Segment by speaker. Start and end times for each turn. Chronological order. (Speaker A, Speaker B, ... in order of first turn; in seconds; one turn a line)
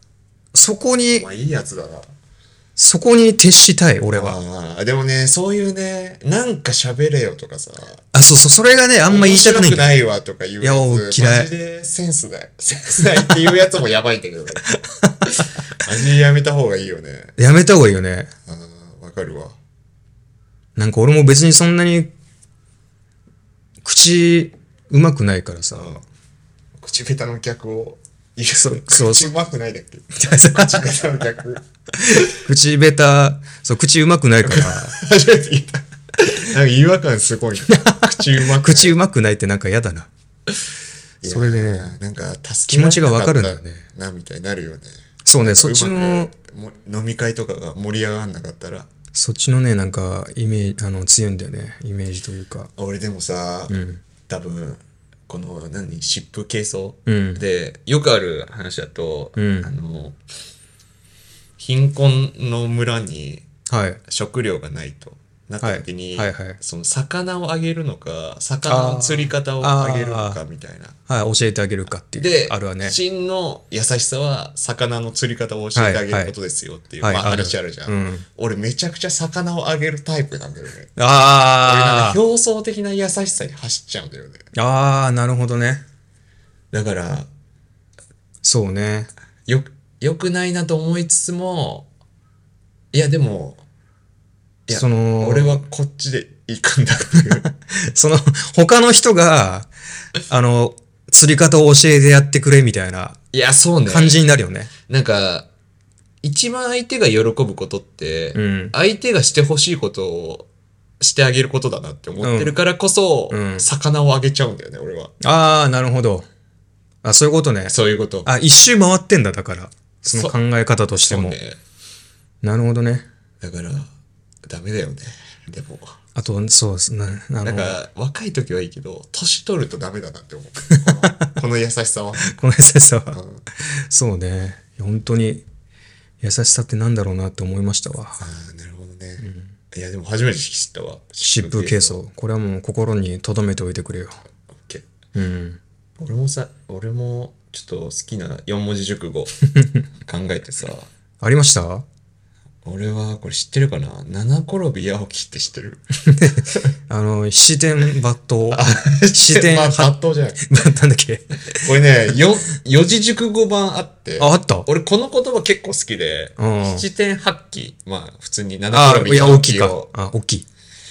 Speaker A: 0.5-1.3
Speaker B: 1.1-2.1
Speaker A: 2.8-4.4
Speaker B: 4.1-8.0
Speaker A: 8.1-9.9
Speaker B: 9.1-14.6
Speaker A: 10.6-11.5
Speaker B: 15.8-17.4
Speaker A: 17.4-18.3
Speaker B: 18.5-19.6
Speaker A: 20.8-22.1
Speaker A: 23.8-26.0
Speaker B: 25.7-26.0
Speaker B: 26.8-31.6
Speaker A: 28.5-29.3
Speaker A: 30.2-31.1
Speaker A: 32.0-34.9
Speaker B: 34.5-39.0
Speaker A: 37.7-40.1
Speaker B: 41.2-48.9
Speaker A: 41.2-42.0
Speaker A: 42.7-43.9
Speaker A: 45.3-46.3
Speaker A: 49.1-52.7
Speaker B: 52.8-53.8
Speaker A: 53.7-54.0
Speaker B: 54.3-60.2
Speaker A: 57.1-57.4
Speaker A: 59.4-59.7
Speaker B: 61.6-63.5
Speaker A: 63.7-64.0
Speaker B: 64.1-71.0
Speaker A: 65.6-66.6
Speaker A: 68.7-70.4
Speaker A: 71.1-73.0
Speaker B: 72.0-84.5
Speaker A: 75.8-76.3
Speaker A: 77.0-78.2
Speaker A: 81.0-82.2
Speaker A: 84.5-85.8
Speaker B: 86.7-87.3
Speaker A: 88.4-89.1
Speaker B: 89.5-91.9
Speaker B: 92.9-93.6
Speaker B: 94.7-97.5
Speaker A: 94.7-95.6
Speaker A: 97.4-99.7
Speaker A: 100.3-103.2
Speaker B: 103.3-104.2
Speaker A: 103.9-104.7
Speaker B: 104.9-105.5
Speaker B: 106.2-110.5
Speaker A: 108.3-108.7
Speaker B: 111.0-115.1
Speaker A: 112.2-112.6
Speaker A: 113.3-113.7
Speaker A: 115.2-116.3
Speaker A: 117.0-117.7
Speaker B: 117.7-118.3
Speaker A: 118.2-121.4
Speaker B: 120.1-120.4
Speaker B: 120.9-121.6
Speaker A: 122.4-123.1
Speaker B: 123.4-123.9
Speaker B: 124.5-125.9
Speaker A: 126.2-127.8
Speaker B: 127.4-132.3
Speaker A: 130.9-131.3
Speaker A: 132.3-133.2
Speaker B: 133.1-133.4
Speaker A: 133.9-135.4
Speaker A: 136.2-138.2
Speaker B: 138.2-142.0
Speaker A: 139.2-139.5
Speaker A: 141.2-144.2
Speaker A: 145.2-145.6
Speaker B: 146.0-149.3
Speaker B: 150.1-150.9
Speaker A: 151.2-151.8
Speaker B: 152.6-155.8
Speaker A: 156.2-159.9
Speaker B: 158.5-160.4
Speaker A: 160.5-161.7
Speaker B: 161.6-169.9
Speaker A: 164.2-164.7
Speaker A: 166.4-166.8
Speaker A: 168.7-170.5